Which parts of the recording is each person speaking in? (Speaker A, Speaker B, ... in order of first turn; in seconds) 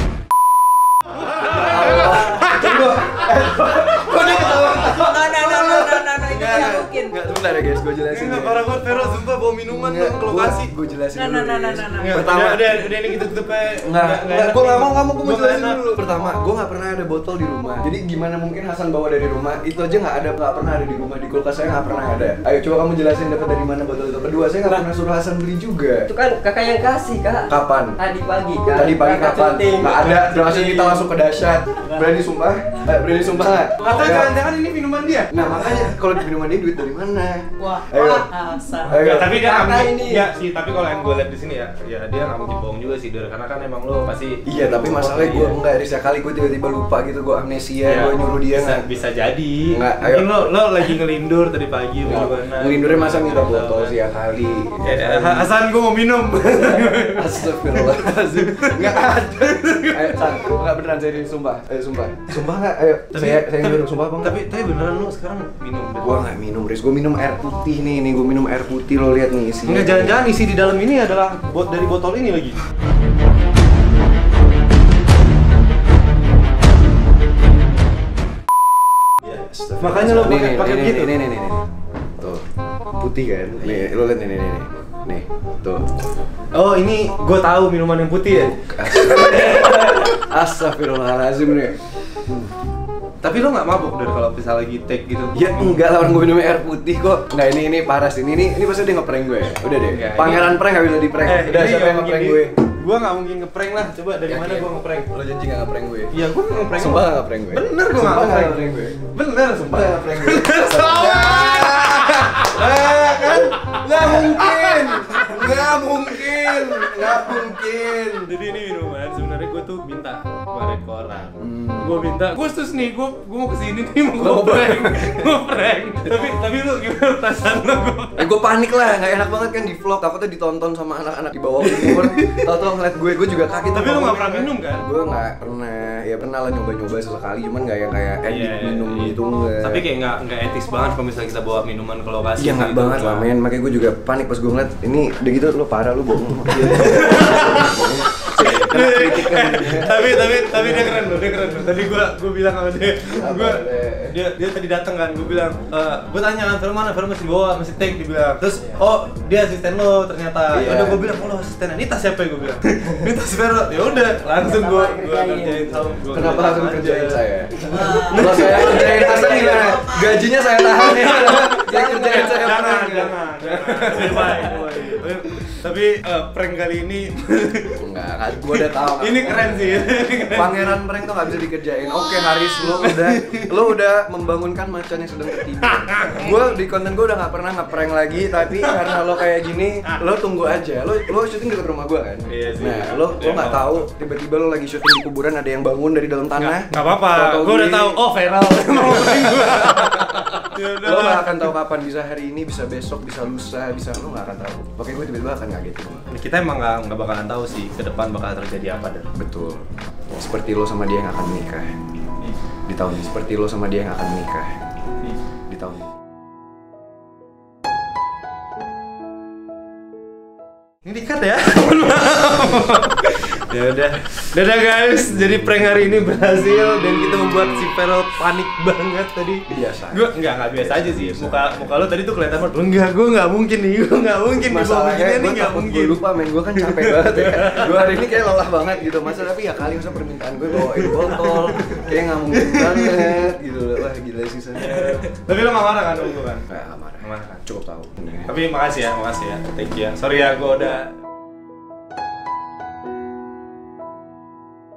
Speaker A: 1.4-8.9, 9.7-12.9, 13.8-26.1, 27.5-28.0, 28.7-34.4, 35.3-38.3, 38.8-39.9, 44.5-48.9, 49.7-50.4, 52.0-55.5, 56.4-64.4, 66.0-70.2, 79.3-81.7, 82.2-82.5, 83.0-85.9, 88.4-92.5, 95.3-102.5, 104.3-106.1, 106.8-109.0, 109.7-118.3, 121.4-121.9, 124.1-125.4, 128.2-139.8, 142.4-151.3, 153.1-154.2, 160.5-161.2, 166.1-174.6, 177.8-198.0, 198.5-200.3, 200.8-206.1, 209.2-211.7, 212.7-214.5, 215.5-215.9, 225.3-225.7, 229.5-231.8, 234.4-245.1, 246.5-248.3
Speaker B: 1.5-2.7, 4.1-5.7, 6.4-6.8, 8.1-10.7, 12.0-15.8, 29.9-31.0, 33.8-35.9, 38.9-45.6, 47.9-54.0, 54.8-60.6, 63.1-66.3, 69.7-72.6, 79.2-81.2, 83.6-83.9, 86.5-89.9, 93.2-95.9, 99.8-100.6, 101.2-105.1, 106.1-115.5, 116.3-117.5, 118.2-128.3, 131.7-132.5, 133.7-134.8, 138.2-143.3, 146.6-169.8, 170.9-177.9, 178.4-180.9, 182.1-183.6, 185.6-186.5, 188.4-189.0, 192.3-193.9, 196.4-201.4, 206.1-209.1, 220.8-238.2, 240.6-243.2, 244.6-246.5, 247.0-247.4, 248.2-251.0
Speaker C: 4.1-7.2, 11.1-12.2, 37.6-39.0, 168.1-170.1
Speaker D: 26.1-30.2, 39.7-40.2, 164.2-166.0, 167.6-168.1, 171.7-172.4